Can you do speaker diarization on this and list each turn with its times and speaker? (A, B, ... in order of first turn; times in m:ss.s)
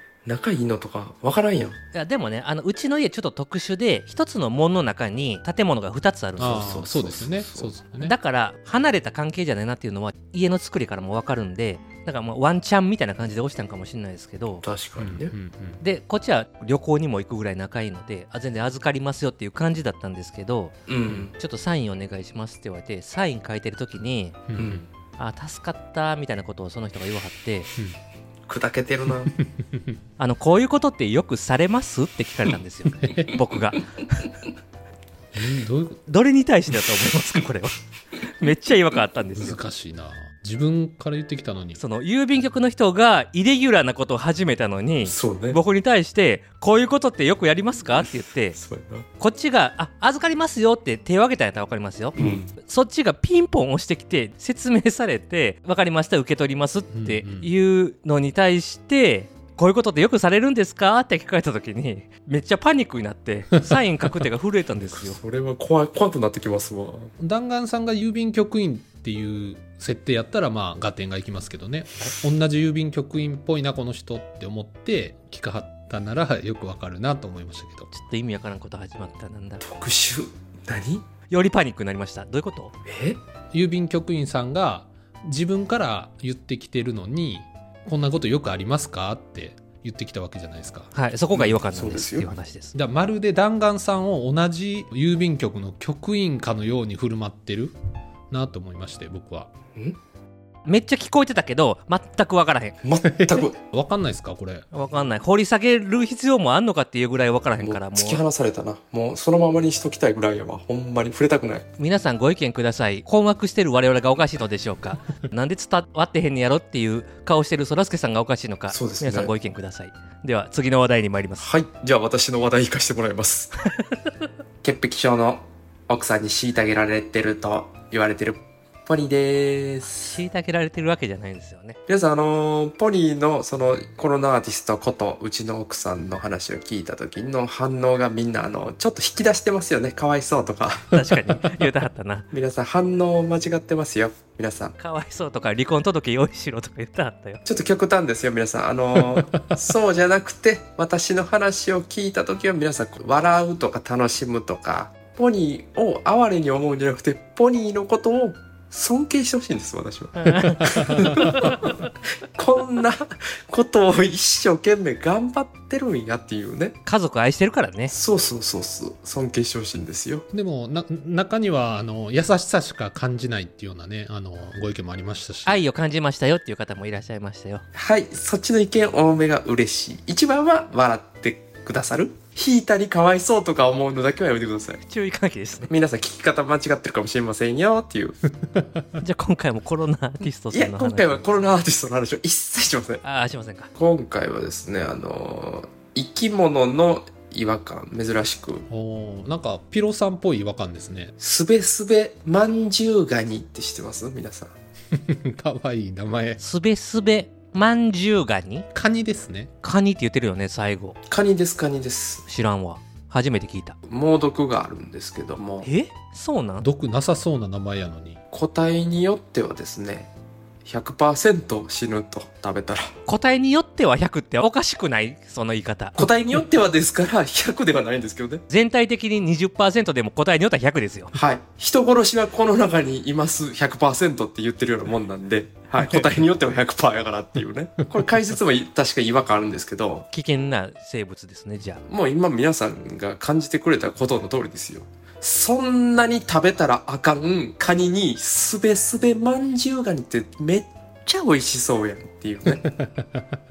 0:00.3-0:01.8 A
0:01.9-0:06.8 B
0:06.4-0:07.7 A
0:06.4-0:08.2 C
0:08.0-0:14.6 B
0:14.6-0:15.3 A
0:15.0-0:15.8 C
0:15.8-0:20.7 B
0:20.9-0:21.3 A
0:21.3-0:24.4 B
0:24.5-0:24.8 C
0:24.6-0:24.9 A
0:25.2-0:27.7 B
0:28.5-0:29.3 A
0:29.3-0:30.0 C
0:30.2-0:33.9 B
0:33.0-0:33.4 C
0:35.3-0:36.0 C
0:36.1-0:37.8 B
0:38.4-0:39.6 B
0:39.4-0:41.8 C
0:41.8-0:48.6 B
0:45.0-0:45.6 A
0:48.6-0:49.1 A
0:49.2-1:05.2 B
0:52.2-0:52.5 A
0:56.9-0:57.5 C
1:04.9-1:07.1 A
1:07.2-1:17.9 C
1:17.9-1:19.6 B
1:19.6-1:21.0 A
1:21.3-1:22.7 B
1:22.9-1:23.2 A
1:23.5-1:30.9 C
1:30.9-1:32.7 B
1:31.3-1:32.3 A
1:32.7-1:37.7 C
1:38.3-1:39.5 C
1:40.6-1:42.8 B
1:42.8-1:43.6 A
1:43.0-1:44.7 C
1:44.7-1:48.2 B
1:47.6-1:51.7 A
1:51.8-2:01.5 B
1:58.7-1:59.3 A
2:01.4-2:03.6 A
2:04.6-2:10.1 A
2:10.0-2:11.8 B
2:11.9-2:20.9 A
2:20.9-2:22.3 B
2:21.3-2:21.6 C
2:22.3-2:24.8 A
2:24.8-2:27.4 B
2:27.5-2:41.7 A
2:29.0-2:29.6 C
2:40.2-2:41.0 B
2:40.8-2:41.6 C
2:42.4-2:46.8 A
2:46.8-2:47.9 B
2:47.9-2:50.2 A
2:50.3-2:55.6 C
2:55.5-2:57.6 B
2:57.7-3:04.8 A
3:04.9-3:05.7 B
3:05.7-3:08.2 A
3:08.5-3:08.9 C
3:09.0-3:11.2 B
3:10.5-3:13.0 A
3:13.0-3:13.7 B
3:13.7-3:18.7 A
3:18.7-3:21.1 C
3:21.2-3:24.5 A
3:24.9-3:26.4 C
3:26.4-3:28.7 B
3:28.7-3:29.5 C
3:29.6-3:31.0 B
3:31.1-3:32.2 A
3:32.3-3:33.8 B
3:33.9-3:35.7 A
3:35.6-3:36.7 B
3:36.6-3:38.2 C
3:38.3-3:40.1 A
3:40.6-3:42.9 A
3:43.1-3:46.0 B
3:46.0-3:48.4 A
3:48.5-3:51.1 B
3:51.1-4:00.1 A
4:00.1-4:01.8 B
4:01.9-4:12.7 A
4:12.5-4:13.4 C